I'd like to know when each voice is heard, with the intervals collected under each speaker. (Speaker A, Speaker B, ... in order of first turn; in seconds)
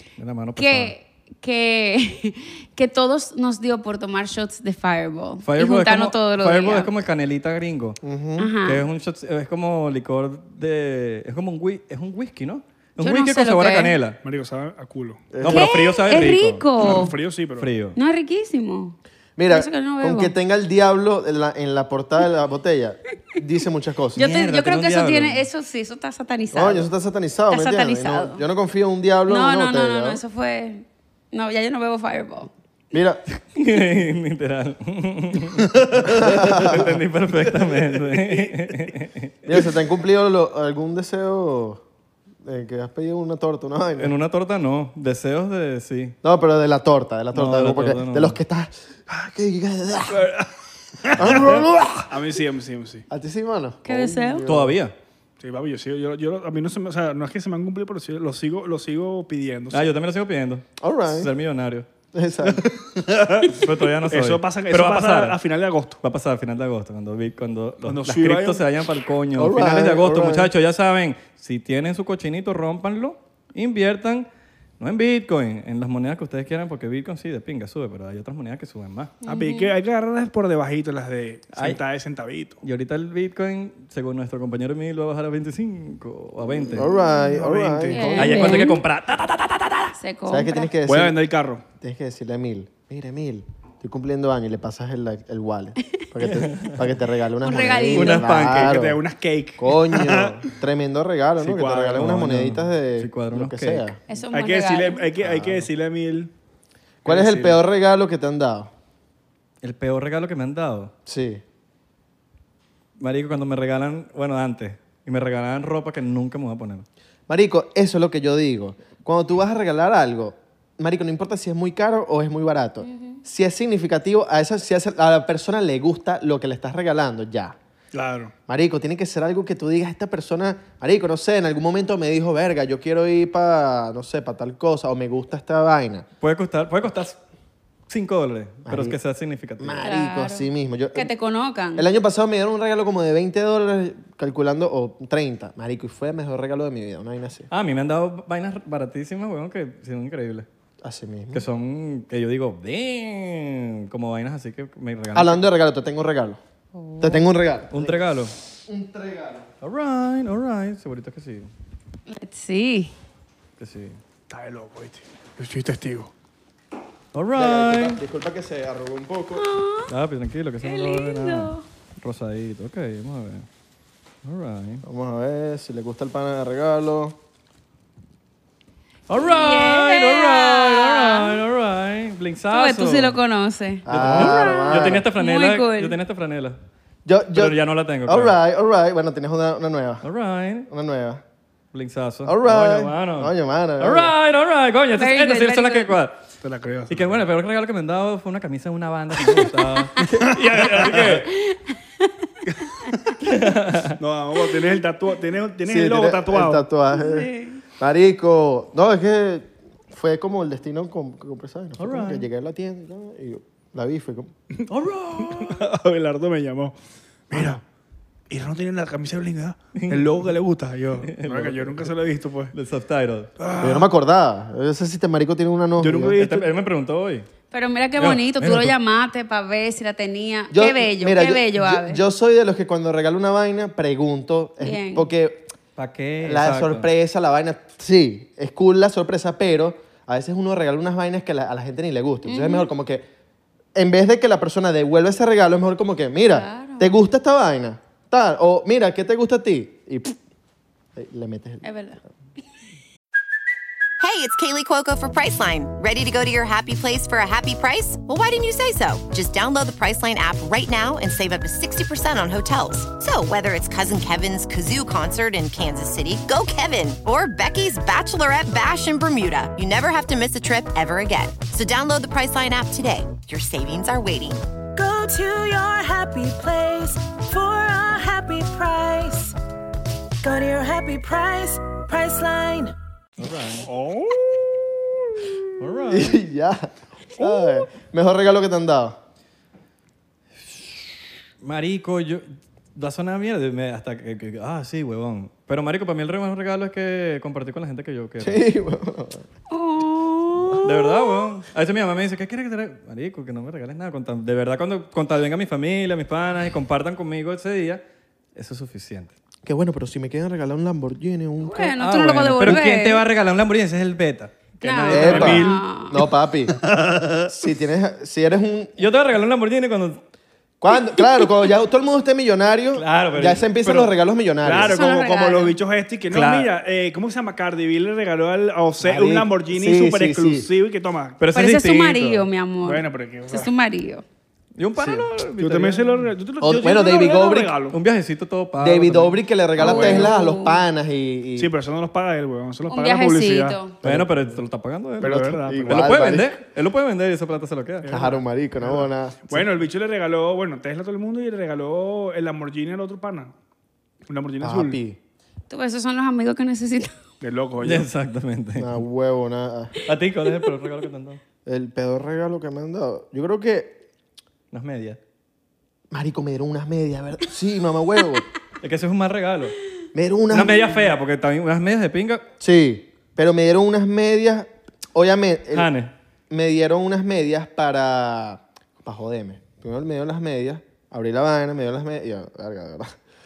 Speaker A: 0.2-0.9, 5.4-8.0, 8.6-14.2, 15.4-16.6, 17.6-18.0, 24.1-25.4, 33.5-39.5, 44.0-46.1, 47.3-48.4, 54.5-54.9, 59.7-61.9, 63.5-65.4, 66.0-74.3, 74.8-79.2, 81.5-81.8, 82.6-86.9, 88.2-89.9, 96.2-96.8, 97.9-98.8, 102.0-103.9, 109.6-110.9, 113.0-116.8, 136.2-137.2, 137.9-139.8, 147.5-150.4, 151.3-155.4, 157.7-158.3, 159.6-161.5, 163.6-164.0, 167.1-168.0, 169.9-173.4, 174.2-174.8, 179.1-183.2, 183.9-186.6, 187.3-188.3, 190.0-190.7, 191.7-196.2, 196.9-201.2, 203.2-204.0, 211.8-212.2, 214.7-215.6, 219.7-220.3, 221.0-221.9, 222.5-223.3, 226.2-227.3, 228.0-228.7, 235.8-236.9, 283.2-283.7, 285.6-286.2, 290.4-290.8, 291.4-298.4, 300.6-307.8, 308.3-309.1, 311.8-315.5, 318.8-320.0, 322.7-323.6, 326.1-326.5, 331.2-332.3, 334.6-336.0, 337.7-339.2, 343.8-347.9, 357.6-358.8, 359.8-361.2, 364.5-365.0, 368.6-369.6, 370.3-372.2, 375.5-375.9
Speaker B: 0.6-6.9, 8.4-8.8, 13.0-13.9, 15.5-17.1, 17.9-19.0, 19.5-20.3, 24.1-26.9, 27.5-28.4, 29.3-32.5, 53.8-54.4, 79.2-79.7, 87.0-87.2, 87.9-88.8, 90.0-90.7, 97.4-98.2, 104.1-105.1, 122.8-123.2, 139.8-141.9, 162.1-162.9, 169.3-169.9, 170.6-171.6, 179.3-181.4, 182.5-185.9, 194.9-195.9, 201.2-202.1, 206.9-207.6, 227.5-232.0, 234.6-235.1, 242.3-242.7, 246.3-246.9, 251.6-252.0, 299.5-301.2, 311.4-313.0, 314.6-316.0, 324.6-325.5, 331.3-334.0, 339.6-340.6, 342.7-343.8, 355.5-356.9
Speaker C: 8.0-8.5, 15.3-15.8, 19.4-24.2, 26.5-30.2, 32.9-33.2, 36.0-37.0, 39.4-41.8, 42.4-44.1, 46.2-50.3, 51.1-52.2, 53.1-54.8, 60.8-61.3, 62.1-62.6, 69.3-70.5, 86.7-88.7, 90.3-91.2, 91.8-99.0, 99.6-104.0, 105.2-105.6, 107.0-108.7, 111.0-111.4, 117.3-127.5, 128.5-136.1, 138.7-139.0, 139.6-141.1, 141.7-147.5, 150.8-151.4, 155.1-156.4, 157.0-158.0, 158.7-159.5, 167.3-169.4, 174.8-177.2, 183.8-185.0, 187.1-190.1, 190.7-191.2, 192.2-194.1, 200.0-200.4, 205.7-214.3, 223.6-226.2, 230.5-235.5, 236.2-243.1, 243.7-250.2, 250.9-251.7, 285.9-289.0, 298.2-299.2, 309.4-311.8, 314.9-316.6, 317.3-318.9, 320.6-324.8, 328.8-330.5, 334.8-335.1, 336.4-337.5, 338.6-341.5, 343.8-344.4, 345.0-346.4, 347.9-349.5, 354.4-355.0, 358.6-359.8, 361.4-363.8, 365.9-368.2, 369.9-370.8, 372.4-375.7, 376.3-382.9
Speaker D: 14.2-15.3, 16.8-17.7, 50.1-50.5, 51.0-53.0, 55.4-59.9, 62.5-66.0, 67.8-68.6, 79.2-82.6, 87.3-88.4, 90.8-91.6, 98.4-100.4, 101.4-102.1, 104.3-106.3, 107.0-107.5, 127.9-128.3, 164.3-166.1, 196.4-197.2, 200.2-201.3, 204.0-206.6, 215.2-216.8, 217.3-217.6, 218.3-222.5, 223.4-223.9, 225.8-226.5, 283.6-284.4, 314.9-315.6, 316.6-317.3, 324.4-331.2, 332.6-333.5, 335.4-337.8, 339.6-340.1, 341.4-343.6, 345.0-346.1, 347.8-353.3, 354.1-354.8, 357.2-357.9
Speaker E: 254.0-274.4
Speaker F: 274.8-279.3, 280.2-282.7